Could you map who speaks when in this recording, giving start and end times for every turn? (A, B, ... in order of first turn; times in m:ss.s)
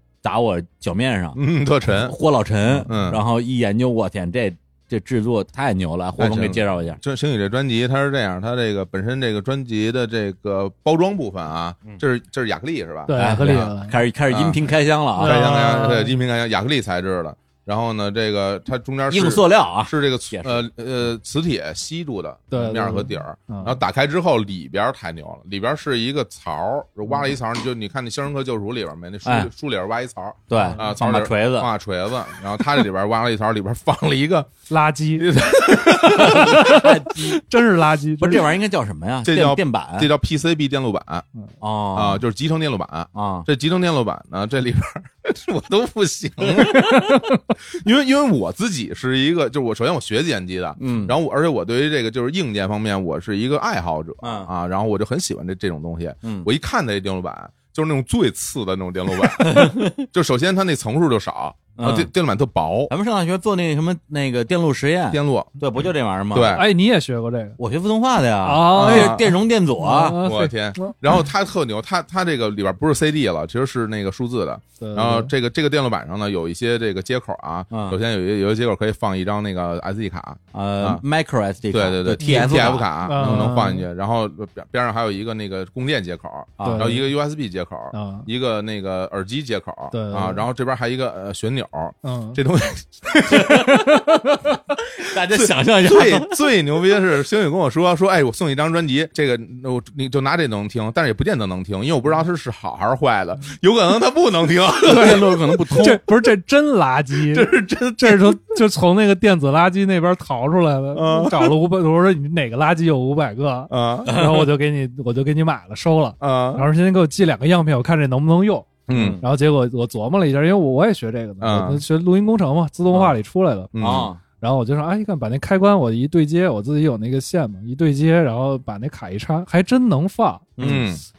0:00.2-0:07.0 A
0:01.3-0:02.2 B
0:02.8-0:03.2 B
0:06.2-0:13.7 B
0:13.1-0:14.0 C
0:13.2-0:15.4 A
0:14.3-0:34.5 B
0:15.2-0:16.1 C
0:19.1-0:20.6 A
0:22.5-0:23.8 C
0:29.2-0:29.5 A
0:30.5-0:31.7 A
0:30.5-0:30.8 C
0:34.7-0:35.3 C
0:35.2-0:36.6 B
0:35.9-0:38.5 C
0:36.0-0:37.4 A
0:38.2-0:40.1 A
0:39.2-0:41.2 B
0:41.6-0:42.2 A
0:41.9-0:46.9 B
0:43.1-0:43.5 A
0:46.6-0:47.4 C
0:47.7-1:02.9 B
0:50.8-0:51.2 A
0:54.2-0:54.5 A
0:56.2-0:56.5 A
0:59.4-1:00.0 A
1:01.8-1:02.1 A
1:02.9-1:06.6 A
1:05.1-1:05.6 B
1:06.3-1:06.6 B
1:06.5-1:07.6 C
1:07.6-1:10.2 A
1:08.4-1:11.0 C
1:08.7-1:09.3 B
1:10.2-1:21.0 B
1:14.8-1:15.3 C
1:17.7-1:18.0 A
1:20.5-1:23.4 A
1:21.7-1:33.7 B
1:22.2-1:23.8 C
1:26.6-1:26.9 A
1:26.6-1:27.1 C
1:27.9-1:28.3 C
1:29.9-1:30.4 C
1:32.0-1:32.4 C
1:33.3-1:34.0 A
1:33.5-1:34.5 C
1:35.0-1:36.4 A
1:35.2-1:45.8 B
1:44.8-1:46.0 A
1:45.7-2:03.7 C
1:47.3-1:48.4 B
1:50.9-1:51.6 B
1:53.7-1:54.2 B
1:54.1-1:54.5 A
1:56.2-1:56.6 B
1:58.9-1:59.2 B
1:58.9-1:59.2 A
2:01.4-2:01.8 B
2:03.7-2:04.1 B
2:03.8-2:04.2 A
2:04.4-2:10.8 C
2:10.6-2:10.9 A
2:10.6-2:11.0 B